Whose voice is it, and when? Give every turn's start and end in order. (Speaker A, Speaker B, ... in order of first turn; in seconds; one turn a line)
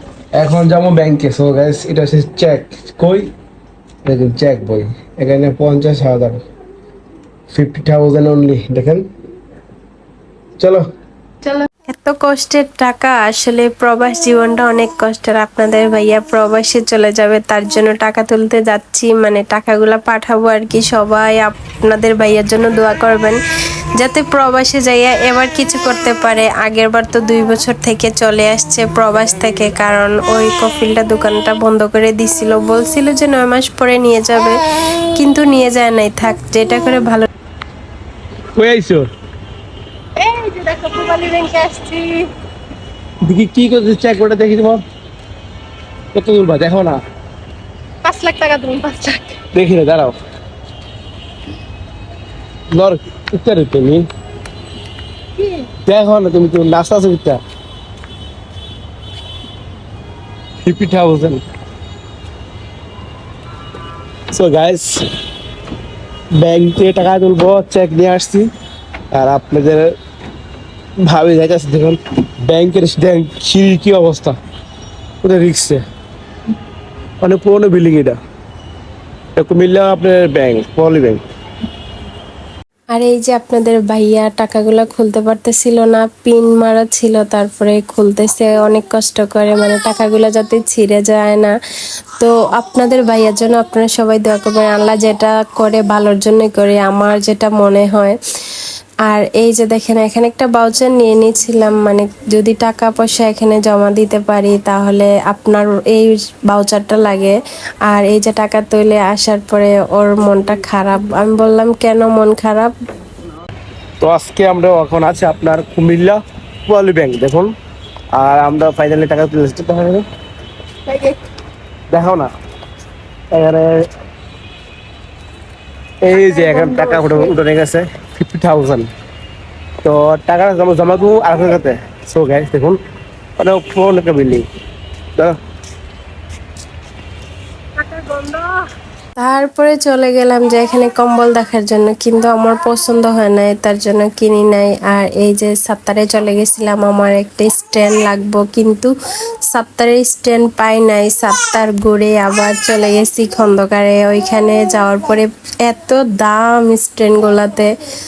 Speaker A: 0.3-3.3
Speaker A: 4.0-6.4
Speaker A: 7.5-9.1
Speaker A: 10.6-10.8
Speaker B: 11.9-23.4
Speaker B: 24.0-34.6
Speaker B: 35.1-37.3
Speaker A: 38.5-39.1
Speaker C: 40.1-42.3
Speaker A: 43.2-44.8
Speaker A: 46.1-47.0
Speaker C: 48.0-49.4
Speaker A: 49.5-50.2
Speaker A: 52.7-54.1
Speaker C: 55.4-55.7
Speaker A: 55.9-57.4
Speaker A: 60.6-61.4
Speaker A: 64.3-65.0
Speaker A: 66.3-68.5
Speaker A: 69.1-69.9
Speaker A: 71.0-74.3
Speaker A: 75.2-75.8
Speaker A: 77.2-78.2
Speaker A: 79.3-81.2
Speaker B: 82.9-91.5
Speaker B: 92.2-98.2
Speaker B: 99.0-107.3
Speaker B: 107.9-112.7
Speaker A: 114.0-117.5
Speaker A: 118.1-120.0
Speaker A: 121.9-122.3
Speaker A: 123.3-123.9
Speaker A: 126.0-128.9
Speaker C: 126.1-127.3
Speaker A: 129.8-132.8
Speaker A: 133.4-134.5
Speaker C: 137.8-138.6
Speaker B: 139.2-148.9
Speaker B: 149.5-157.7